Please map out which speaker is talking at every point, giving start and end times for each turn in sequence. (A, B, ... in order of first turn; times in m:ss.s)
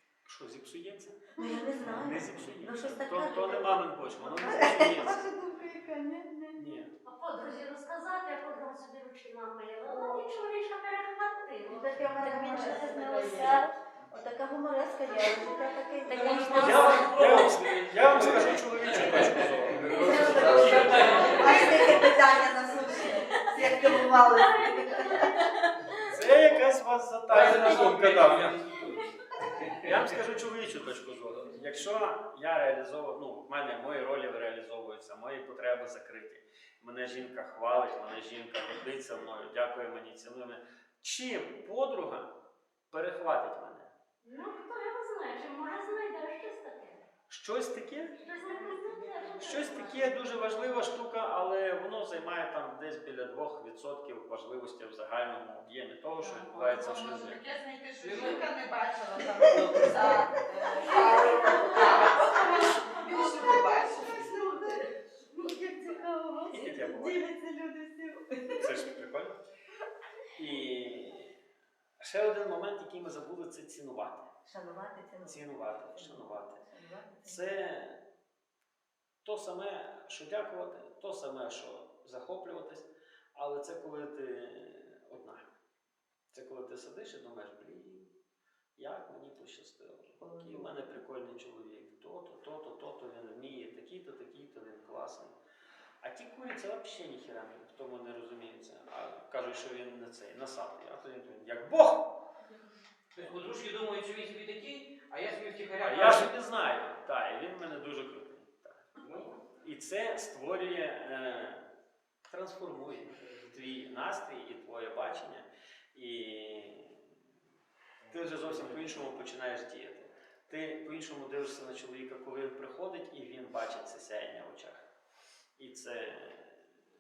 0:00.3-0:05.4 A
0:01.4-0:06.6 B
0:06.6-0:06.9 A
0:07.0-0:13.6 C
0:11.7-0:16.9 B
0:16.1-0:17.4 C
0:16.2-0:22.1 D
0:16.5-0:21.6 A
0:20.0-0:25.3 B
0:21.4-0:21.8 C
0:22.8-0:25.5 C
0:26.0-0:28.6 A
0:27.3-0:29.0 D
0:29.8-0:42.3 A
0:42.9-0:43.9 A
0:44.2-0:47.0 C
0:47.3-0:48.2 A
0:48.2-0:50.1 C
0:48.5-0:49.5 B
0:49.4-0:57.4 A
0:56.2-1:04.4 E
0:59.6-1:00.1 B
1:00.8-1:08.7 B
1:01.5-1:01.9 C
1:06.5-1:07.3 A
1:08.6-1:09.4 A
1:10.4-1:11.3 A
1:12.0-1:14.3 A
1:14.4-1:17.4 B
1:15.2-1:16.6 A
1:17.2-1:18.0 A
1:19.2-1:25.4 A
1:26.3-1:28.1 A
1:28.8-1:35.4 A
1:30.2-1:30.7 B
1:36.0-1:42.1 A
1:43.2-1:46.3 D
1:45.8-1:48.8 A
1:49.0-1:49.4 D
1:49.6-1:51.7 A
1:52.3-1:57.1 A
1:58.1-2:04.8 A
2:05.6-2:06.8 A